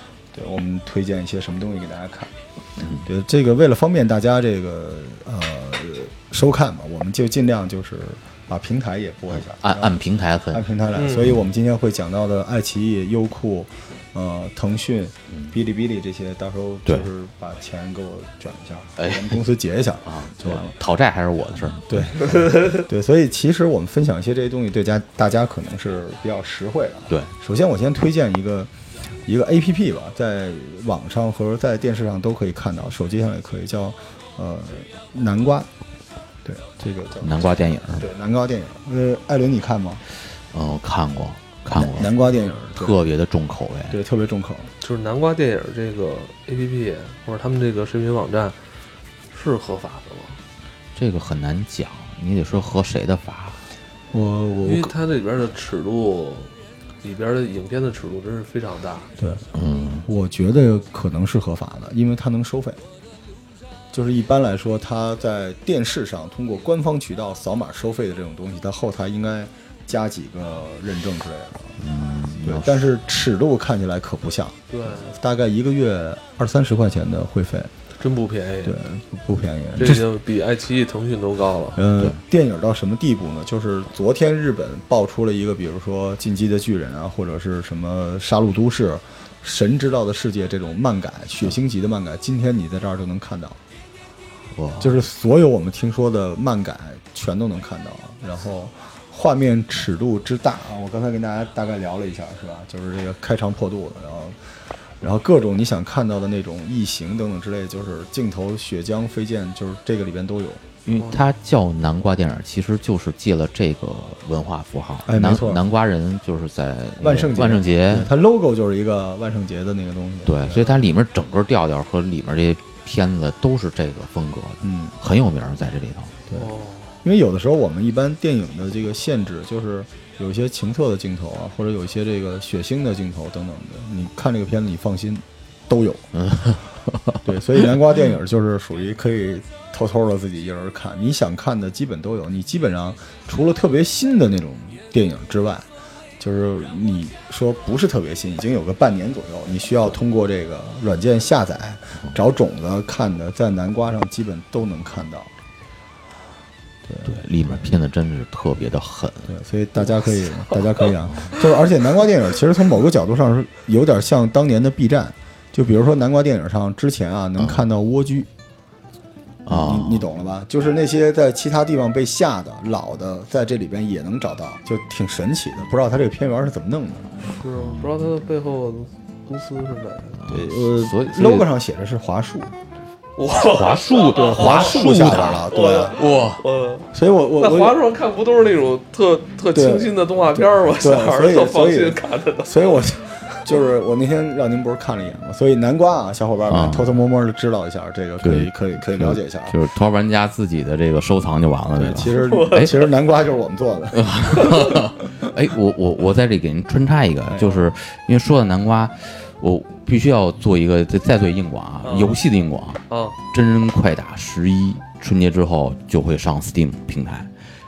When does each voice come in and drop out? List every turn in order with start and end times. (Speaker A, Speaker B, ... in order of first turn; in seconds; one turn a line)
Speaker A: 0.3-2.3
Speaker B: 2.8-3.0
Speaker A: 3.0-9.9
Speaker B: 9.4-10.7
Speaker A: 10.5-20.8
Speaker C: 10.9-11.3
Speaker B: 19.0-19.4
Speaker B: 20.1-22.1
Speaker A: 21.8-28.7
Speaker A: 29.2-35.7
Speaker A: 36.4-40.0
Speaker B: 37.2-38.0
Speaker B: 40.5-42.1
Speaker A: 41.7-43.0
Speaker B: 42.7-44.0
Speaker A: 43.9-44.7
Speaker C: 44.8-48.6
Speaker C: 49.3-50.4
Speaker B: 51.0-53.6
Speaker A: 54.1-54.9
Speaker C: 54.6-56.5
Speaker C: 57.0-59.1
Speaker A: 59.2-59.5
Speaker B: 59.5-60.0
Speaker A: 60.0-62.8
Speaker A: 63.9-71.8
Speaker B: 71.8-72.8
Speaker A: 72.4-77.7
Speaker C: 74.7-75.1
Speaker C: 78.0-78.8
Speaker A: 78.6-80.0
Speaker C: 79.8-81.8
Speaker A: 81.7-93.6
Speaker B: 94.5-95.0
Speaker A: 94.8-104.3
Speaker A: 105.0-110.7
Speaker B: 110.8-118.1
Speaker A: 115.0-115.6
Speaker A: 117.0-120.9
Speaker B: 120.2-126.2
Speaker A: 124.6-125.0
Speaker C: 126.3-126.9
Speaker A: 127.0-136.1
Speaker B: 136.2-137.2
Speaker A: 137.2-145.7
Speaker A: 146.2-155.3
Speaker A: 156.8-157.2
Speaker B: 157.0-159.3
Speaker A: 159.3-168.3
Speaker B: 167.4-167.6
Speaker B: 169.4-170.1
Speaker A: 169.5-177.1
Speaker C: 177.2-180.2
Speaker B: 177.5-177.9
Speaker B: 180.2-181.5
Speaker A: 180.3-182.5
Speaker C: 183.2-192.8
Speaker B: 183.3-186.4
Speaker A: 184.2-186.0
Speaker A: 186.9-187.8
Speaker A: 189.5-199.6
Speaker B: 196.5-196.9
Speaker B: 198.2-202.7
Speaker A: 201.8-204.6
Speaker C: 202.2-202.9
Speaker B: 203.9-217.3
Speaker C: 204.4-204.7
Speaker A: 207.3-207.6
Speaker C: 211.8-212.2
Speaker C: 212.9-213.2